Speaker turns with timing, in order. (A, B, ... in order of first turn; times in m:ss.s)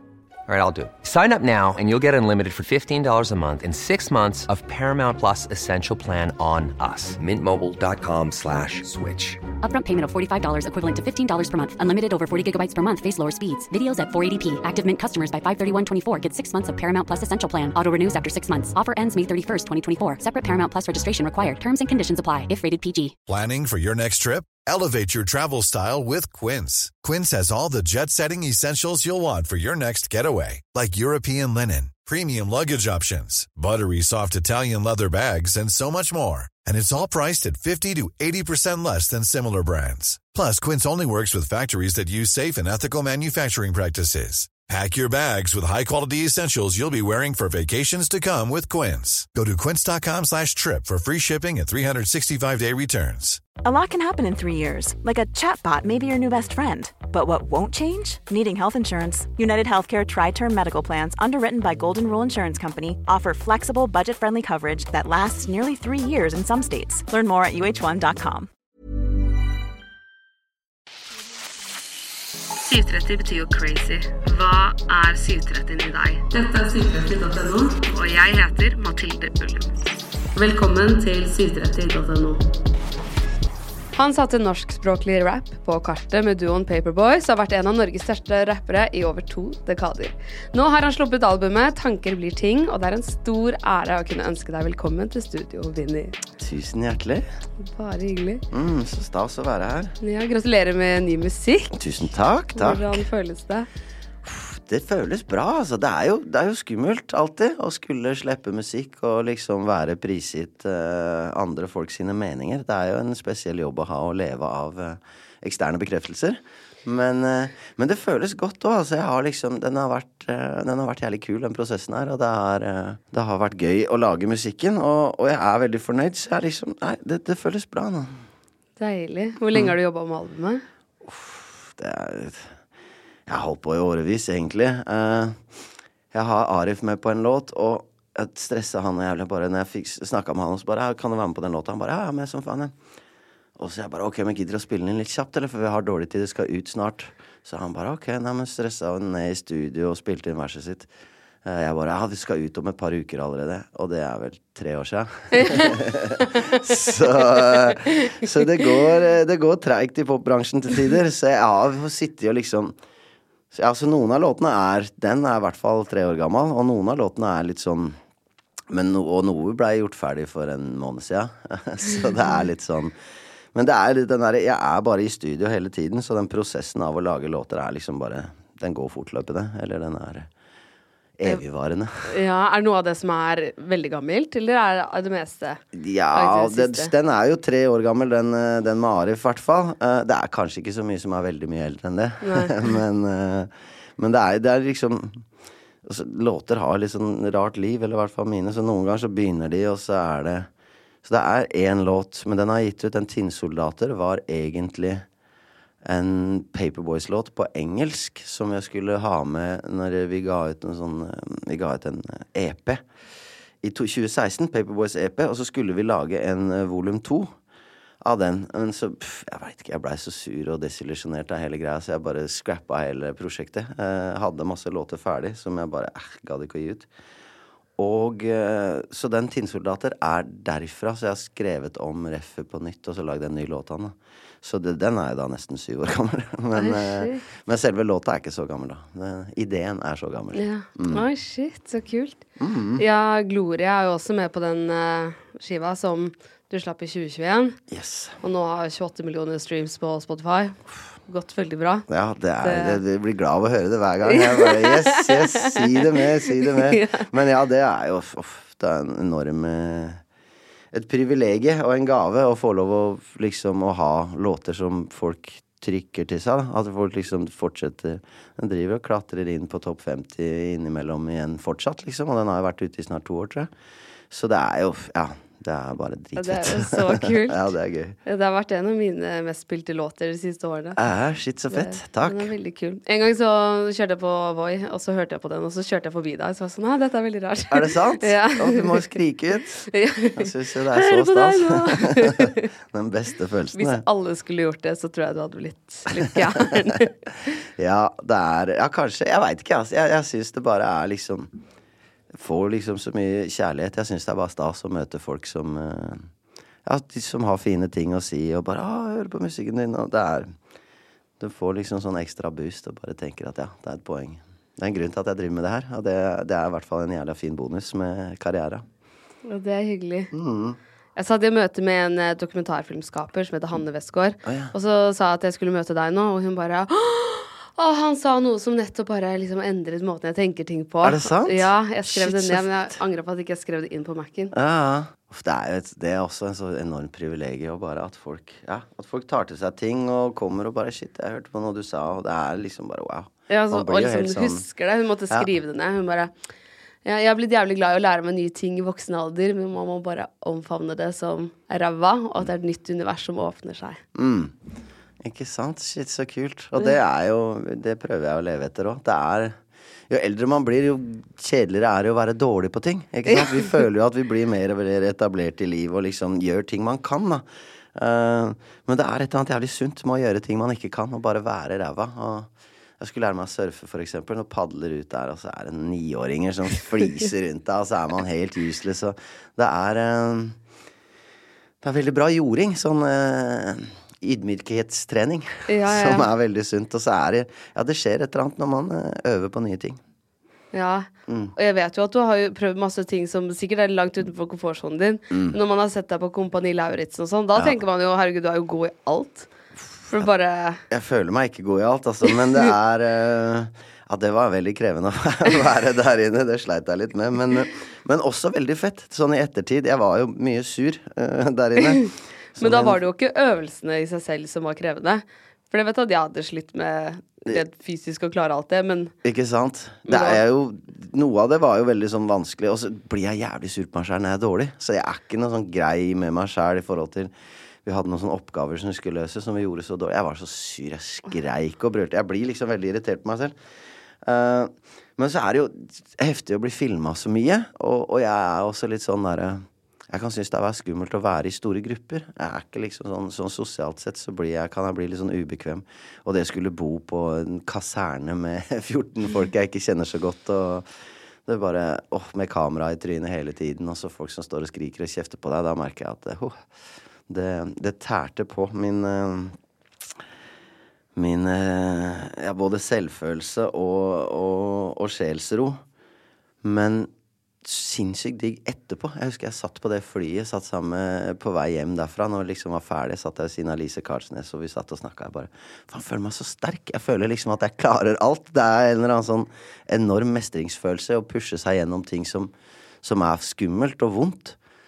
0:00.5-0:09.4 A
0:09.6-0:23.2 B
0:23.3-0:53.4 C
0:53.6-1:08.5 D
1:12.7-1:19.7 E
1:20.4-1:22.4 E
1:23.9-1:36.2 E
1:36.3-1:37.3 F
1:37.6-1:38.4 E
1:38.5-1:40.0 F
1:40.0-1:41.8 E
1:41.7-1:43.1 F
1:42.6-1:43.7 E
1:44.2-2:08.2 F
2:08.8-2:10.6 E
2:11.0-2:12.6 F
2:13.3-2:22.8 F
2:23.6-2:30.9 F
2:31.4-2:42.8 F
2:35.3-2:35.8 E
2:43.5-2:48.0 F
2:48.7-2:53.0 F
2:53.5-3:00.3 F
3:01.2-3:02.1 F
3:02.1-3:06.9 E
3:05.7-3:15.3 F
3:12.2-3:12.7 E
3:15.8-3:20.5 F
3:21.0-3:25.1 F
3:25.8-3:32.8 F
3:33.6-3:37.4 F
3:38.0-3:46.9 F
3:47.8-4:01.0 F
3:56.6-3:57.2 E
4:00.3-4:02.2 E
4:02.4-4:02.8 F
4:02.8-4:07.6 E
4:07.7-4:08.2 F
4:08.2-4:11.9 E
4:11.9-4:20.0 F
4:12.4-4:12.8 E
4:14.1-4:17.1 E
4:20.7-4:33.5 F
4:34.1-4:38.0 F
4:36.2-4:37.5 E
4:38.0-4:40.8 E
4:40.8-4:42.3 F
4:41.5-4:49.0 E
4:47.5-4:53.8 F
4:49.7-4:52.5 E
4:53.6-4:56.9 E
4:57.6-5:01.3 F
5:02.1-5:06.1 F
5:06.6-5:10.4 F
5:11.2-5:18.7 F
5:19.2-5:20.1 E
5:20.1-5:20.6 F
5:21.0-5:34.3 E
5:24.2-5:24.5 F
5:30.8-5:32.7 F
5:34.3-5:44.4 F
5:43.3-5:46.1 E
5:46.8-5:53.8 E
5:54.0-5:54.4 F
5:55.0-6:20.4 F
6:03.1-6:03.4 E
6:21.6-6:29.8 F
6:25.5-6:26.1 E
6:30.5-6:39.3 E
6:31.1-6:31.3 F
6:35.1-6:35.4 F
6:39.9-6:40.6 E
6:40.7-6:52.8 F
6:51.6-6:58.9 E
6:59.0-7:07.1 F
6:59.9-7:00.2 E
7:07.6-7:13.4 F
7:14.0-7:30.7 F
7:31.2-7:36.5 F
7:37.1-7:39.4 F
7:41.0-7:45.6 F
7:46.4-7:46.9 F
7:47.4-8:04.4 F